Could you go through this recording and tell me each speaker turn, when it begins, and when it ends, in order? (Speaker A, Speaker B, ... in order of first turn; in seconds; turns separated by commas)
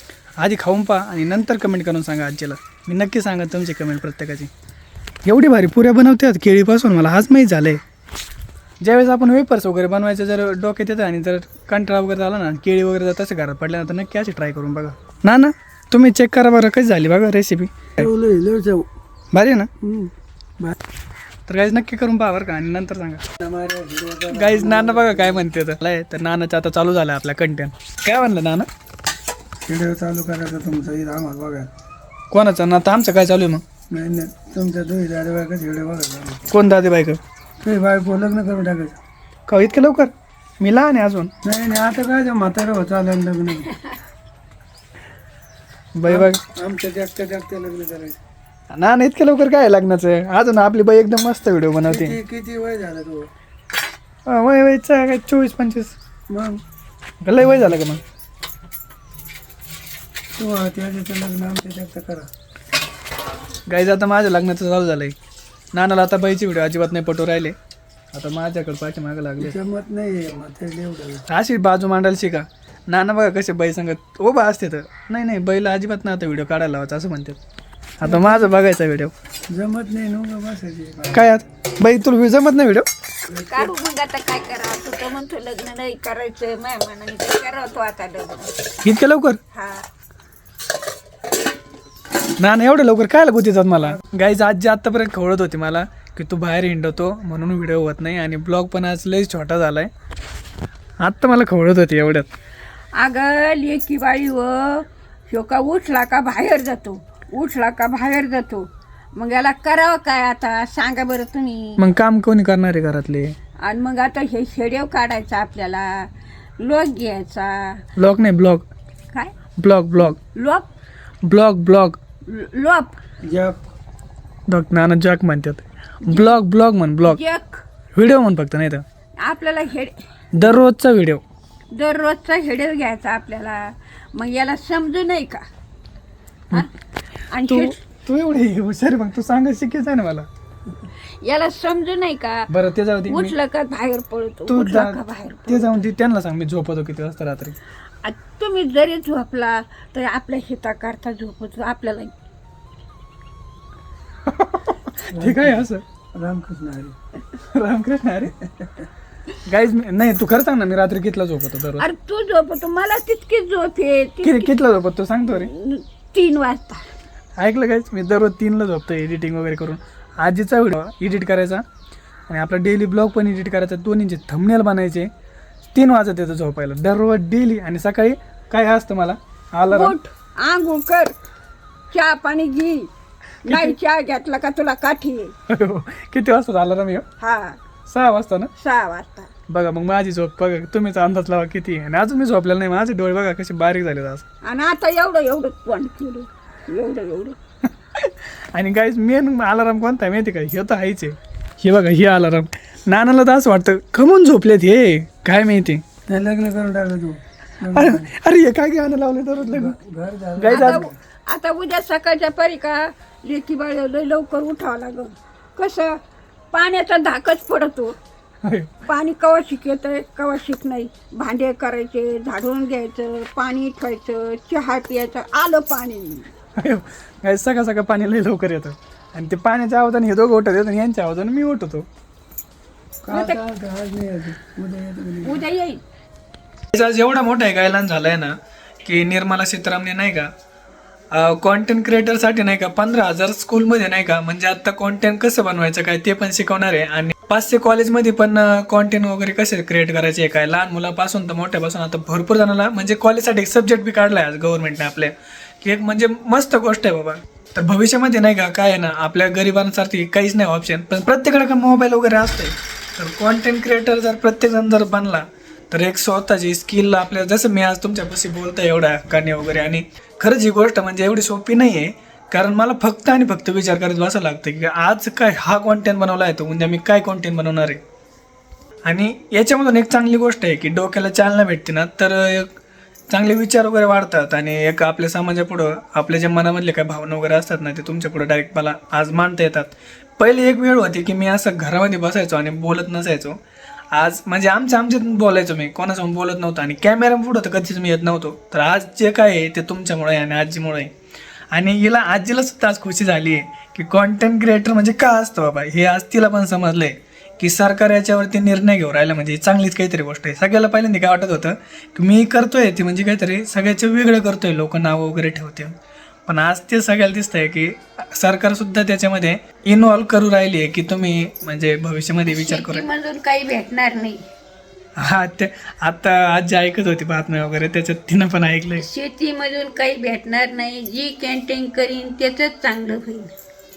Speaker A: 0.4-4.5, Speaker A: 5.3-7.8, Speaker A: 8.8-18.1, Speaker B: 18.0-18.9, Speaker A: 19.3-19.7, Speaker B: 19.8-20.8, Speaker A: 21.5-23.2, Speaker B: 23.4-25.4, Speaker A: 24.3-28.7, Speaker B: 29.7-31.7, Speaker A: 32.3-33.6, Speaker B: 33.9-36.4, Speaker A: 36.5-37.2, Speaker B: 37.6-39.0, Speaker A: 39.5-41.3, Speaker B: 41.4-43.7, Speaker A: 46.0-46.4, Speaker B: 46.1-48.2, Speaker A: 48.7-52.2, Speaker B: 51.9-53.3, Speaker A: 54.3-56.0, Speaker B: 56.3-56.6, Speaker A: 57.2-58.0, Speaker B: 60.4-62.3, Speaker A: 63.7-65.2, Speaker A: 65.7-67.5, Speaker A: 68.1-69.6, Speaker B: 69.4-71.2, Speaker A: 71.3-77.4, Speaker A: 78.0-79.1, Speaker B: 78.0-78.4, Speaker B: 79.5-81.3, Speaker A: 81.1-82.9, Speaker B: 83.3-83.7, Speaker C: 83.3-88.5, Speaker A: 88.8-89.4, Speaker C: 89.5-89.8, Speaker A: 92.4-99.9, Speaker A: 101.0-102.3, Speaker C: 103.0-111.8, Speaker A: 111.8-113.3, Speaker C: 113.6-117.8, Speaker A: 118.0-118.7, Speaker A: 119.6-120.2, Speaker C: 120.3-120.7, Speaker A: 121.2-122.0, Speaker C: 122.3-123.0, Speaker B: 123.2-123.6, Speaker A: 124.5-127.2, Speaker C: 126.1-126.4, Speaker C: 127.0-127.6, Speaker A: 127.9-128.8, Speaker C: 129.2-130.0, Speaker A: 130.3-131.2, Speaker C: 131.7-135.5, Speaker C: 137.3-137.8, Speaker A: 137.5-140.3, Speaker C: 141.2-142.5, Speaker A: 142.5-143.3, Speaker C: 143.1-145.9, Speaker A: 144.5-147.6, Speaker C: 148.0-152.1, Speaker A: 154.3-155.8, Speaker B: 155.1-157.0, Speaker A: 157.3-158.4, Speaker A: 159.4-161.9, Speaker C: 161.8-164.5, Speaker A: 164.2-165.5, Speaker C: 165.3-166.8, Speaker A: 167.4-171.6, Speaker A: 172.3-175.1, Speaker A: 175.7-180.0, Speaker C: 179.7-181.1, Speaker C: 181.9-182.9, Speaker C: 183.5-185.3, Speaker A: 183.5-183.8, Speaker A: 185.5-187.1, Speaker C: 187.2-187.6, Speaker A: 187.9-188.5, Speaker C: 188.6-189.3, Speaker A: 189.5-194.2, Speaker C: 194.4-197.4, Speaker A: 197.9-205.8, Speaker B: 206.1-208.1, Speaker A: 207.7-209.8, Speaker B: 209.4-210.9, Speaker A: 210.4-210.9, Speaker C: 210.5-216.0, Speaker C: 216.5-218.0, Speaker A: 218.4-218.8, Speaker C: 218.8-226.3, Speaker A: 226.6-231.9, Speaker B: 233.0-235.5, Speaker C: 233.1-233.4, Speaker C: 235.2-235.8, Speaker A: 236.7-240.3, Speaker A: 241.1-277.8, Speaker A: 278.9-282.6, Speaker A: 283.1-293.4, Speaker A: 293.9-300.9, Speaker A: 301.5-315.8, Speaker A: 316.3-322.9, Speaker C: 322.3-324.2, Speaker A: 325.0-328.9, Speaker C: 328.8-333.3